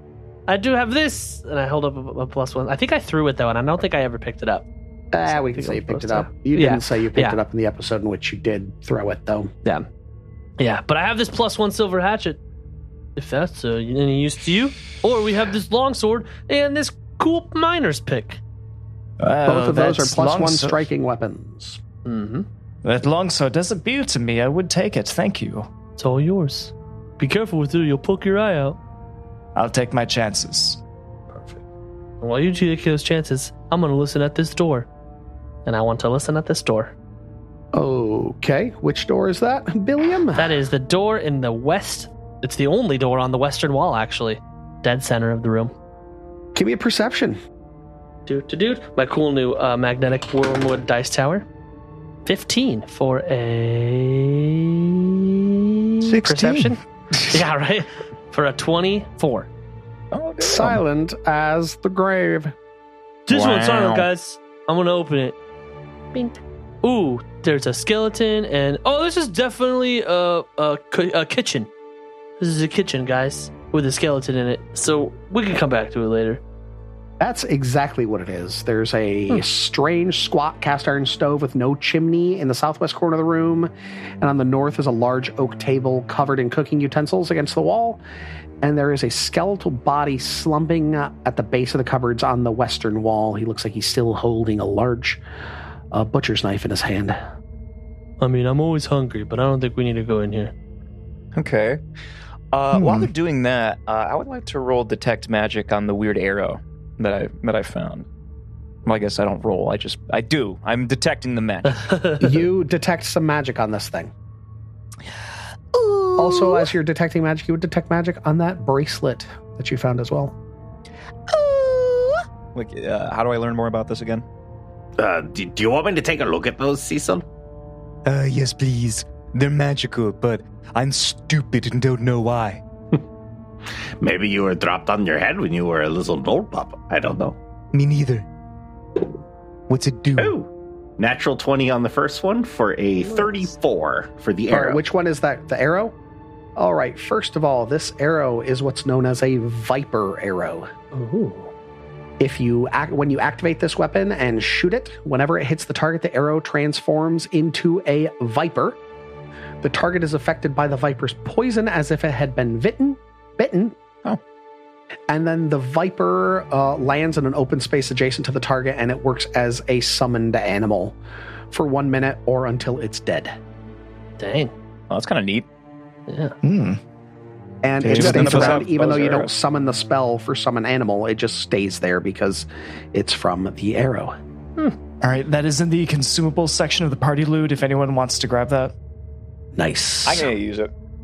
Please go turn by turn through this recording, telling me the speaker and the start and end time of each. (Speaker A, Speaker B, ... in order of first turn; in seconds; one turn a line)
Speaker A: 0.5-4.7
Speaker B: 5.1-9.5
Speaker A: 5.3-7.4
Speaker A: 10.6-12.4
Speaker A: 13.2-18.4
Speaker C: 19.2-20.8
Speaker B: 19.5-21.8
Speaker A: 22.1-22.5
Speaker C: 22.8-25.7
Speaker A: 26.0-28.8
Speaker C: 29.6-30.8
Speaker A: 31.3-31.6
Speaker A: 32.2-34.9
Speaker A: 35.7-37.0
Speaker B: 37.7-40.5
Speaker A: 40.4-45.7
Speaker B: 46.5-47.4
Speaker A: 48.3-51.5
Speaker A: 52.2-59.5
Speaker D: 56.0-57.4
Speaker D: 60.1-60.8
Speaker B: 60.4-62.5
Speaker A: 63.3-65.4
Speaker D: 63.3-64.1
Speaker A: 66.1-71.7
Speaker A: 72.4-76.4
Speaker B: 77.2-88.0
Speaker B: 88.6-95.2
Speaker B: 95.9-97.2
Speaker A: 98.2-100.5
Speaker D: 101.3-101.8
Speaker D: 102.5-108.1
Speaker C: 102.7-103.1
Speaker D: 108.9-111.9
Speaker A: 111.7-112.3
Speaker B: 112.2-114.1
Speaker D: 115.7-116.7
Speaker B: 116.2-120.4
Speaker D: 121.3-124.2
Speaker E: 125.0-127.3
Speaker D: 128.1-132.6
Speaker E: 133.7-137.4
Speaker D: 137.7-138.3
Speaker D: 139.7-140.3
Speaker E: 140.2-144.8
Speaker A: 143.0-143.4
Speaker B: 144.5-146.0
Speaker B: 146.6-150.7
Speaker A: 150.9-151.5
Speaker B: 152.2-158.8
Speaker B: 159.6-163.8
Speaker B: 165.1-171.0
Speaker B: 171.5-173.4
Speaker A: 174.2-174.5
Speaker D: 174.9-175.5
Speaker A: 176.1-176.4
Speaker C: 176.4-176.8
Speaker B: 177.6-184.2
Speaker D: 177.8-179.3
Speaker C: 177.8-178.5
Speaker C: 185.0-188.7
Speaker B: 189.6-190.3
Speaker D: 190.1-190.7